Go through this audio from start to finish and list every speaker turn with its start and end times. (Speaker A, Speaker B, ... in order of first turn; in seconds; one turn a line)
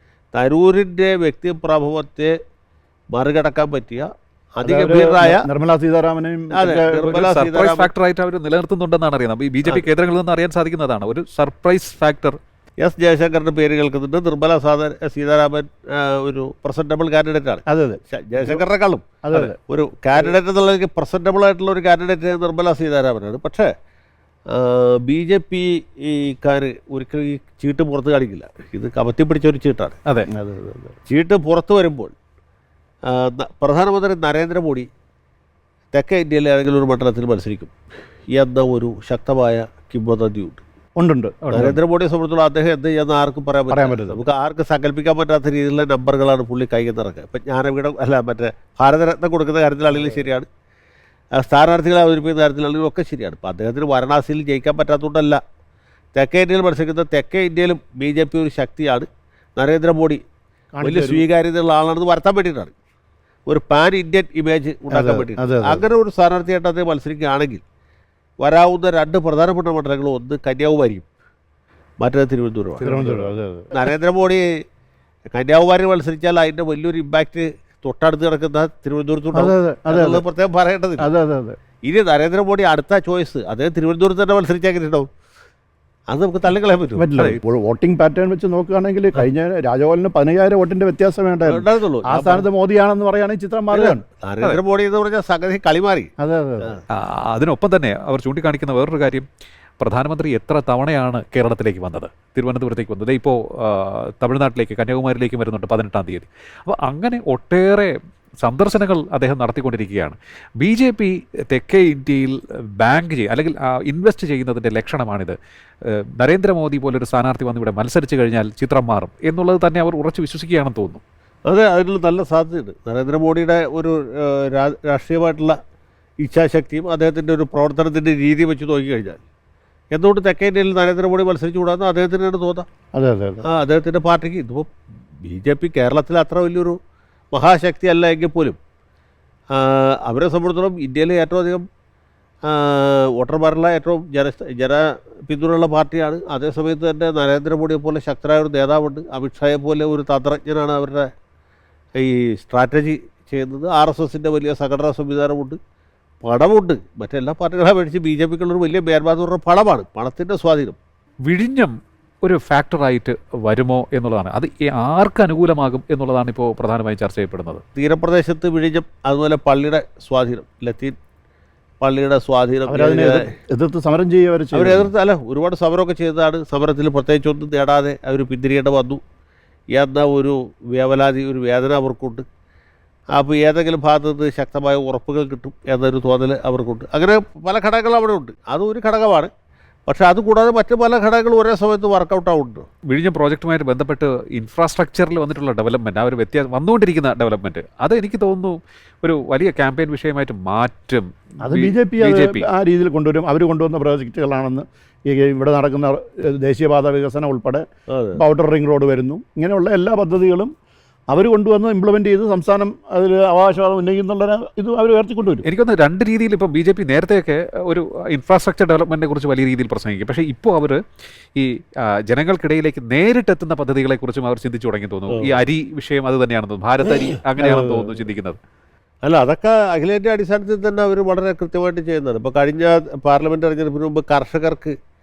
Speaker A: 0.3-2.3
Speaker A: 3.1-5.4
Speaker B: 4.6-7.2
Speaker A: 6.5-7.9
Speaker C: 7.0-12.4
Speaker A: 12.8-23.7
Speaker B: 17.7-18.6
Speaker B: 19.2-19.6
Speaker A: 24.5-29.9
Speaker B: 30.3-30.9
Speaker A: 31.1-32.1
Speaker A: 33.1-34.9
Speaker A: 35.9-37.7
Speaker A: 38.3-40.6
Speaker B: 41.0-41.4
Speaker C: 41.4-41.8
Speaker A: 41.5-50.5
Speaker B: 43.7-44.2
Speaker A: 51.4-55.4
Speaker A: 56.1-60.2
Speaker B: 60.7-61.2
Speaker A: 60.8-62.7
Speaker A: 63.5-67.6
Speaker B: 64.9-65.8
Speaker A: 68.4-71.1
Speaker A: 72.0-74.4
Speaker B: 72.8-73.7
Speaker A: 75.3-81.1
Speaker B: 79.3-80.2
Speaker B: 81.0-81.6
Speaker A: 81.8-85.1
Speaker A: 86.1-87.1
Speaker B: 87.0-94.0
Speaker A: 91.5-92.5
Speaker A: 93.7-96.1
Speaker B: 96.2-96.7
Speaker C: 96.9-99.2
Speaker C: 99.8-107.9
Speaker C: 108.4-115.3
Speaker C: 116.2-121.0
Speaker A: 121.5-125.5
Speaker A: 126.2-129.2
Speaker A: 129.9-132.7
Speaker B: 132.9-133.4
Speaker A: 133.4-134.7
Speaker A: 135.2-136.8
Speaker A: 137.3-138.6
Speaker A: 139.5-141.6
Speaker A: 142.4-151.1
Speaker A: 152.0-155.6
Speaker A: 156.2-160.8
Speaker C: 161.3-167.6
Speaker A: 167.8-170.9
Speaker A: 171.8-173.3
Speaker B: 172.7-174.9
Speaker A: 174.5-179.0
Speaker A: 179.7-182.2
Speaker A: 183.1-189.3
Speaker A: 189.9-192.7
Speaker C: 192.9-202.4
Speaker B: 201.4-210.5
Speaker A: 207.9-208.2
Speaker B: 211.1-215.4
Speaker C: 215.4-220.8
Speaker C: 222.1-228.4
Speaker A: 225.1-225.3
Speaker B: 227.4-228.0
Speaker A: 229.0-234.7